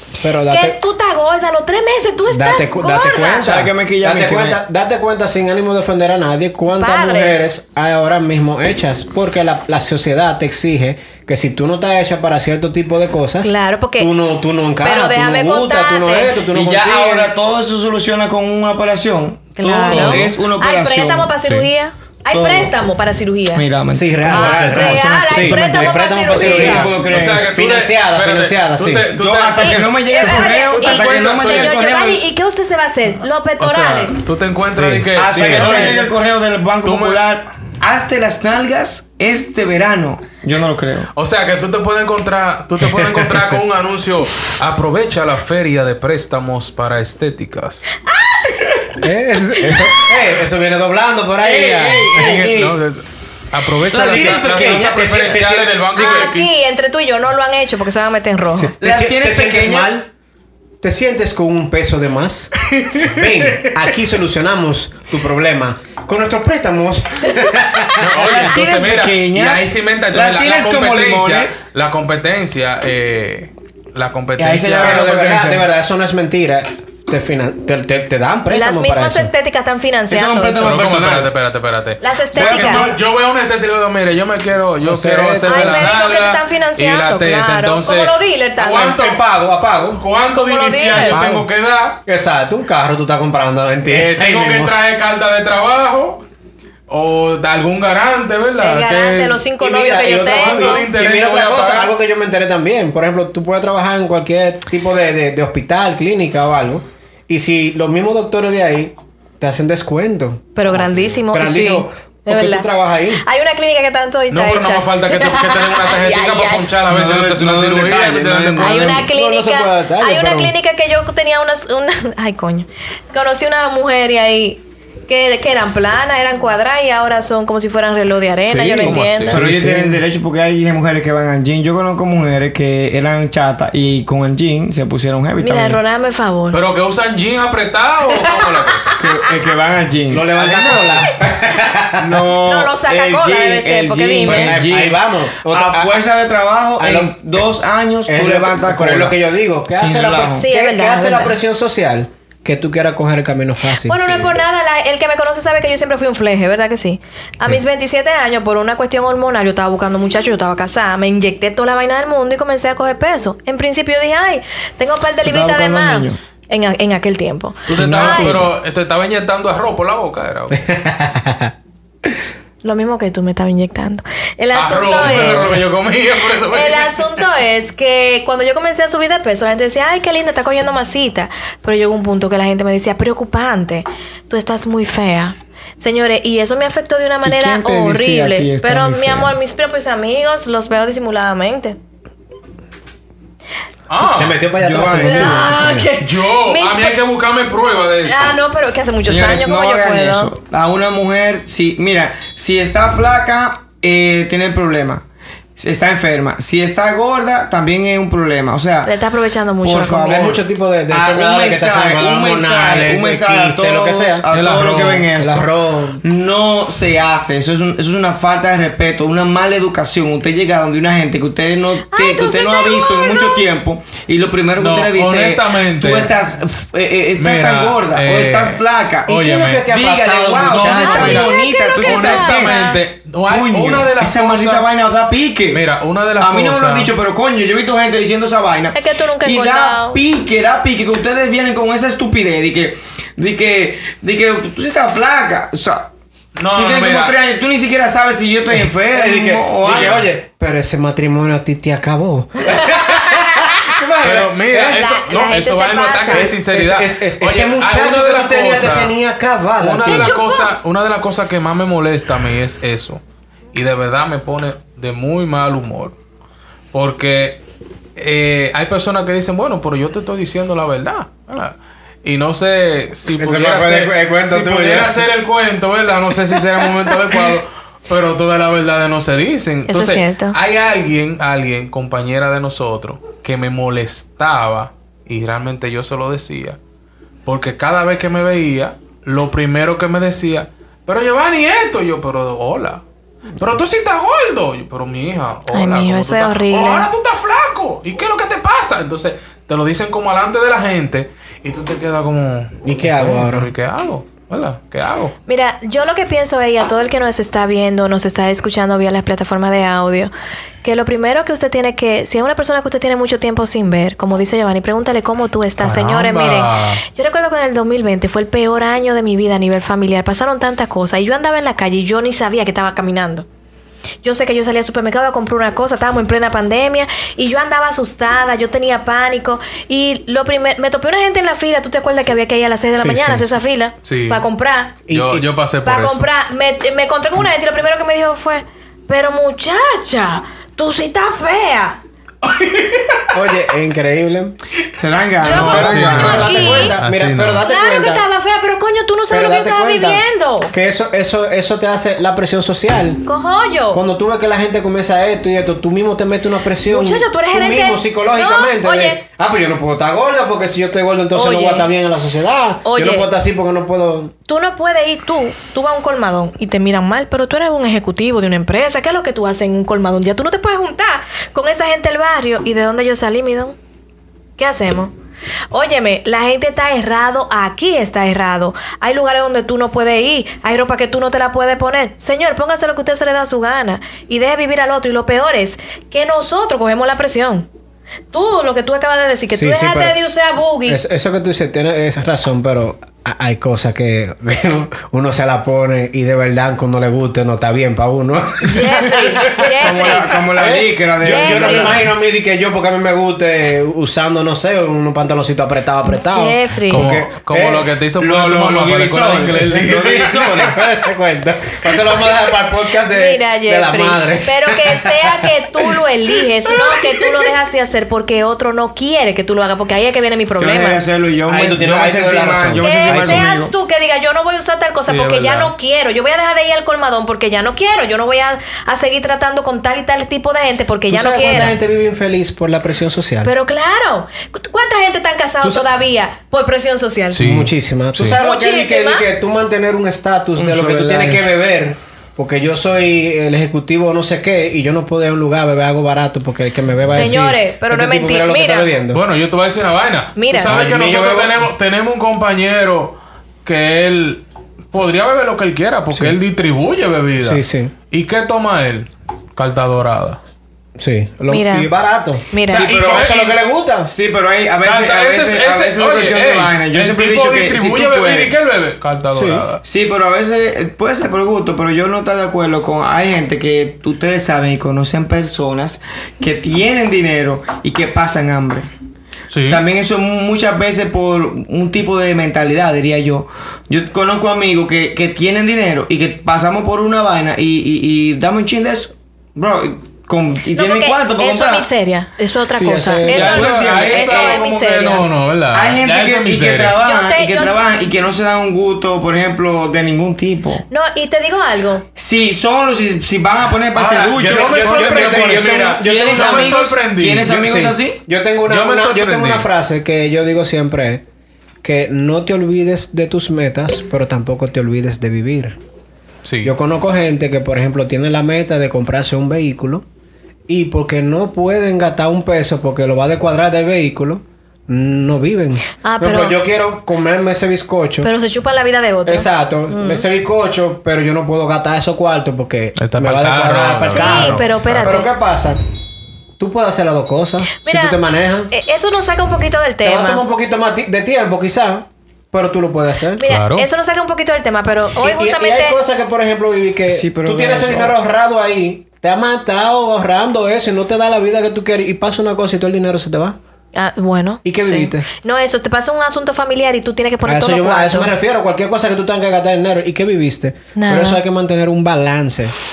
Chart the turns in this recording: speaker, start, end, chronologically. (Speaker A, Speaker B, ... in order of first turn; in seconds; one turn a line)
Speaker A: 0.2-0.8
Speaker B: 0.5-3.5
Speaker A: 2.3-17.3
Speaker C: 3.4-4.6
Speaker B: 6.7-7.4
Speaker B: 13.4-14.1
Speaker B: 14.8-16.3
Speaker C: 16.5-21.3
Speaker B: 19.6-23.6
Speaker A: 19.9-20.3
Speaker C: 22.3-22.7
Speaker C: 23.5-27.5
Speaker A: 23.9-29.1
Speaker B: 24.3-26.9
Speaker D: 27.1-31.8
Speaker C: 29.1-32.2
Speaker B: 29.6-34.2
Speaker D: 33.6-36.1
Speaker A: 34.8-36.0
Speaker C: 35.1-41.1
Speaker D: 36.8-37.2
Speaker D: 41.1-48.0
Speaker A: 42.8-43.5
Speaker B: 48.1-48.6
Speaker A: 49.0-52.5
Speaker C: 51.4-52.8
Speaker D: 52.1-56.5
Speaker C: 53.9-55.7
Speaker A: 53.9-55.7
Speaker B: 56.0-58.7
Speaker A: 58.5-60.1
Speaker C: 58.8-60.0
Speaker A: 60.8-68.5
Speaker D: 62.6-63.7
Speaker D: 68.0-75.2
Speaker C: 68.2-71.6
Speaker C: 74.4-75.7
Speaker A: 74.8-79.3
Speaker B: 78.5-80.7
Speaker C: 80.1-81.3
Speaker D: 80.6-89.2
Speaker B: 82.0-82.9
Speaker C: 82.3-83.0
Speaker A: 84.8-86.0
Speaker B: 85.5-89.0
Speaker A: 88.7-90.0
Speaker D: 90.0-92.0
Speaker B: 90.3-91.2
Speaker A: 90.9-91.5
Speaker A: 92.1-94.8
Speaker D: 93.9-96.2
Speaker D: 96.9-99.4
Speaker B: 98.6-100.9
Speaker A: 99.6-113.2
Speaker D: 100.3-101.9
Speaker B: 110.6-116.7
Speaker D: 114.3-119.0
Speaker C: 116.9-119.1
Speaker B: 118.6-129.4
Speaker A: 119.1-120.5
Speaker A: 128.6-130.0
Speaker D: 128.8-129.5
Speaker C: 129.3-135.8
Speaker B: 135.4-136.6
Speaker D: 136.5-138.9
Speaker B: 138.9-139.1
Speaker C: 139.0-140.8
Speaker A: 140.1-142.3
Speaker D: 140.4-140.9
Speaker C: 142.0-149.2
Speaker B: 142.4-144.6
Speaker A: 144.2-146.0
Speaker A: 146.8-147.4
Speaker A: 148.1-154.4
Speaker C: 149.7-150.5
Speaker B: 150.3-151.4
Speaker B: 153.8-168.4
Speaker C: 165.2-166.2
Speaker D: 167.7-170.6
Speaker C: 167.7-168.5
Speaker A: 170.5-171.5
Speaker B: 172.6-175.6
Speaker D: 174.5-177.2
Speaker B: 176.5-191.8
Speaker C: 187.2-189.3
Speaker D: 193.9-194.4
Speaker A: 194.0-195.9
Speaker C: 194.6-195.5
Speaker B: 195.0-197.0
Speaker D: 196.0-198.3
Speaker B: 198.1-200.3
Speaker C: 199.1-205.1
Speaker C: 205.6-208.9
Speaker B: 208.8-210.2
Speaker C: 209.6-215.5
Speaker A: 210.0-214.3
Speaker D: 214.3-215.1
Speaker A: 215.1-216.0
Speaker C: 216.0-232.6
Speaker B: 221.9-223.4
Speaker D: 224.6-226.1
Speaker D: 227.2-229.7
Speaker A: 229.1-231.2
Speaker D: 230.4-234.8
Speaker B: 230.7-232.8
Speaker C: 233.3-235.6
Speaker D: 235.5-236.9
Speaker C: 236.2-245.9
Speaker B: 238.8-240.0
Speaker D: 246.4-247.2
Speaker C: 246.5-250.1
Speaker A: 248.9-254.9
Speaker D: 249.7-250.0
Speaker B: 252.5-253.8
Speaker D: 254.0-258.9
Speaker B: 254.6-256.3
Speaker A: 256.1-260.1
Speaker D: 259.6-263.0
Speaker B: 259.9-260.5
Speaker D: 263.5-266.0
Speaker D: 266.7-267.4
Speaker D: 268.0-286.6
Speaker A: 273.2-275.1
Speaker A: 276.9-277.2
Speaker B: 279.7-280.4
Speaker D: 287.3-292.8
Speaker D: 293.4-305.1
Speaker B: 295.5-296.9
Speaker A: 302.6-303.5
Speaker B: 305.3-310.1
Speaker B: 310.6-323.3
Speaker D: 315.6-316.8
Speaker B: 324.0-334.8
Speaker A: 332.8-333.3
Speaker D: 333.9-334.2
Speaker A: 334.9-335.3
Speaker D: 334.9-336.1
Speaker B: 335.6-341.8
Speaker D: 342.2-343.1
Speaker A: 343.1-344.4
Speaker C: 344.8-346.5
Speaker B: 345.2-346.8
Speaker D: 345.2-347.4
Speaker A: 345.3-348.1
Speaker B: 347.4-350.5
Speaker A: 349.1-353.0
Speaker B: 353.1-353.8
Speaker A: 353.7-364.1
Speaker B: 356.7-359.0
Speaker B: 361.1-361.7
Speaker B: 362.6-363.1
Speaker B: 364.3-373.6
Speaker B: 374.4-374.9
Speaker B: 375.5-387.5
Speaker B: 388.1-390.8
Speaker A: 389.3-390.0
Speaker A: 390.7-407.7
Speaker B: 398.4-400.1
Speaker C: 399.3-401.9
Speaker B: 401.1-401.8
Speaker B: 405.9-406.9
Speaker D: 406.7-410.1
Speaker C: 408.0-410.6
Speaker A: 409.6-417.3
Speaker B: 412.9-420.8
Speaker C: 420.4-423.5
Speaker A: 421.3-423.3
Speaker B: 422.6-431.6
Speaker D: 424.9-425.5
Speaker A: 430.9-433.3
Speaker B: 433.2-437.2
Speaker A: 435.4-435.7
Speaker D: 437.1-438.2
Speaker A: 437.2-449.0
Speaker B: 438.2-439.1
Speaker D: 440.4-441.3
Speaker B: 446.9-448.7
Speaker D: 448.9-460.2
Speaker B: 450.2-450.5
Speaker A: 450.4-451.5
Speaker A: 455.9-456.2
Speaker A: 457.2-457.7
Speaker A: 460.8-463.9
Speaker B: 461.3-461.7
Speaker B: 462.3-462.7
Speaker D: 462.5-463.4
Speaker C: 462.5-463.3
Speaker C: 463.9-468.3
Speaker D: 464.6-469.6
Speaker A: 469.1-469.4
Speaker C: 469.6-478.7
Speaker D: 479.3-479.6
Speaker C: 479.5-491.7
Speaker B: 490.5-495.1
Speaker A: 492.5-493.5
Speaker C: 493.1-494.5
Speaker D: 493.1-496.8
Speaker C: 495.5-500.6
Speaker B: 496.8-497.6
Speaker B: 500.7-501.9
Speaker C: 502.0-508.0
Speaker D: 503.8-507.4
Speaker A: 504.2-506.6
Speaker A: 507.3-511.0
Speaker D: 508.5-509.5
Speaker A: 511.6-515.6
Speaker D: 516.2-516.5
Speaker A: 516.4-519.9
Speaker A: 520.5-528.1
Speaker B: 525.8-526.4
Speaker B: 528.0-530.0
Speaker A: 529.1-535.6
Speaker D: 532.8-535.0
Speaker B: 533.8-535.1
Speaker A: 536.4-538.5
Speaker B: 537.6-538.0
Speaker B: 538.5-540.2
Speaker A: 539.8-543.2
Speaker B: 543.2-545.8
Speaker D: 543.3-543.7
Speaker A: 545.0-553.4
Speaker C: 546.9-548.0
Speaker B: 553.8-558.1
Speaker A: 554.5-555.1
Speaker A: 557.2-562.5
Speaker B: 560.8-561.2